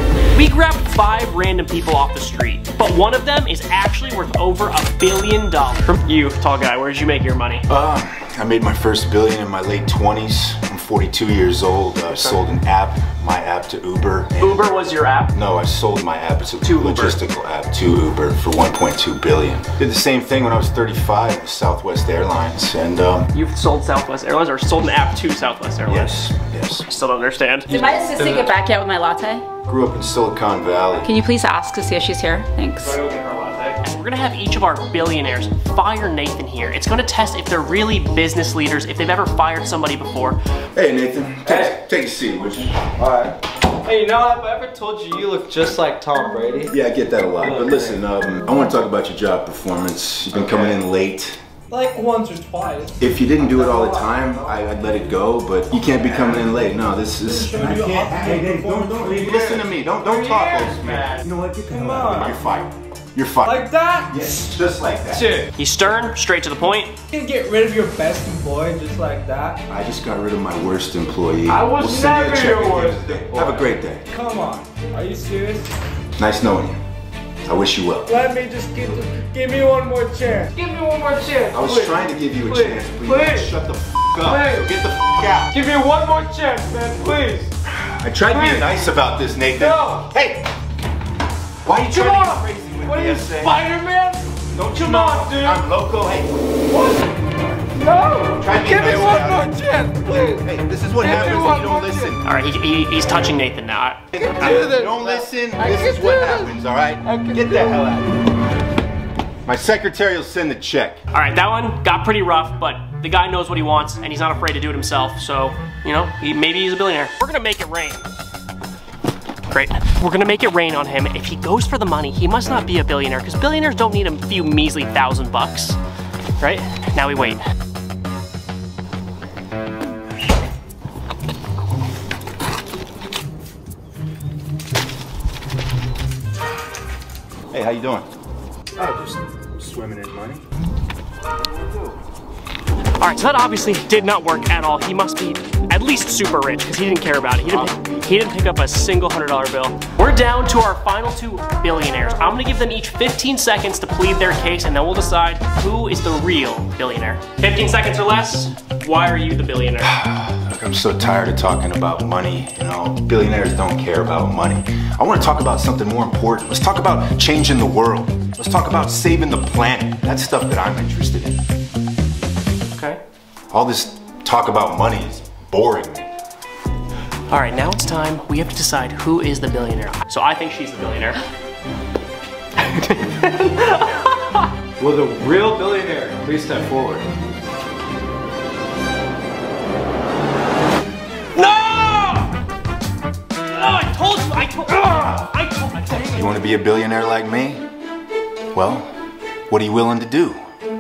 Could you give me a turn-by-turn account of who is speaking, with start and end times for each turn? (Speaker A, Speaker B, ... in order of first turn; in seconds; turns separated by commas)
Speaker A: 0.3-7.7, Speaker B: 7.7-14.7, Speaker A: 14.4-15.3, Speaker B: 15.3-23.3, Speaker A: 16.6-17.2, Speaker A: 23.3-26.1, Speaker B: 25.9-26.9, Speaker A: 26.9-27.9, Speaker C: 27.7-29.4, Speaker B: 29.7-31.1, Speaker C: 31.0-33.0, Speaker A: 32.8-40.4, Speaker B: 40.8-43.0, Speaker D: 41.5-41.7, Speaker D: 43.0-46.8, Speaker B: 46.7-51.4, Speaker D: 47.4-48.0, Speaker D: 51.7-54.6, Speaker B: 53.0-65.4, Speaker D: 57.2-62.4, Speaker D: 63.4-64.2, Speaker D: 65.1-65.5, Speaker A: 65.6-67.0, Speaker D: 67.1-69.6, Speaker B: 69.7-74.1, Speaker D: 71.5-75.7, Speaker B: 76.2-76.8, Speaker B: 77.5-78.2, Speaker D: 78.1-83.5, Speaker B: 81.5-85.5, Speaker D: 84.2-84.7, Speaker D: 85.5-87.5, Speaker B: 87.7-90.5, Speaker D: 88.3-88.7, Speaker D: 89.5-90.1, Speaker B: 91.6-93.6, Speaker D: 91.7-95.6, Speaker B: 94.5-96.7, Speaker D: 96.7-97.1, Speaker B: 97.4-97.7, Speaker D: 97.8-102.1, Speaker B: 98.3-102.3, Speaker A: 102.2-104.0, Speaker D: 104.1-105.1, Speaker B: 104.1-108.2, Speaker D: 105.6-106.5, Speaker D: 107.1-107.7, Speaker B: 109.5-111.0, Speaker A: 111.1-118.1, Speaker A: 119.5-125.8, Speaker A: 126.4-127.4, Speaker B: 137.5-138.1, Speaker B: 138.8-140.4, Speaker A: 143.0-160.0, Speaker B: 147.4-148.2, Speaker B: 159.8-171.4, Speaker A: 172.8-173.0, Speaker B: 173.5-176.1, Speaker A: 177.3-181.2, Speaker A: 182.6-184.2, Speaker D: 184.8-187.1, Speaker A: 191.4-192.3, Speaker A: 193.5-196.3, Speaker B: 196.0-197.6, Speaker B: 198.5-198.9, Speaker B: 199.5-200.4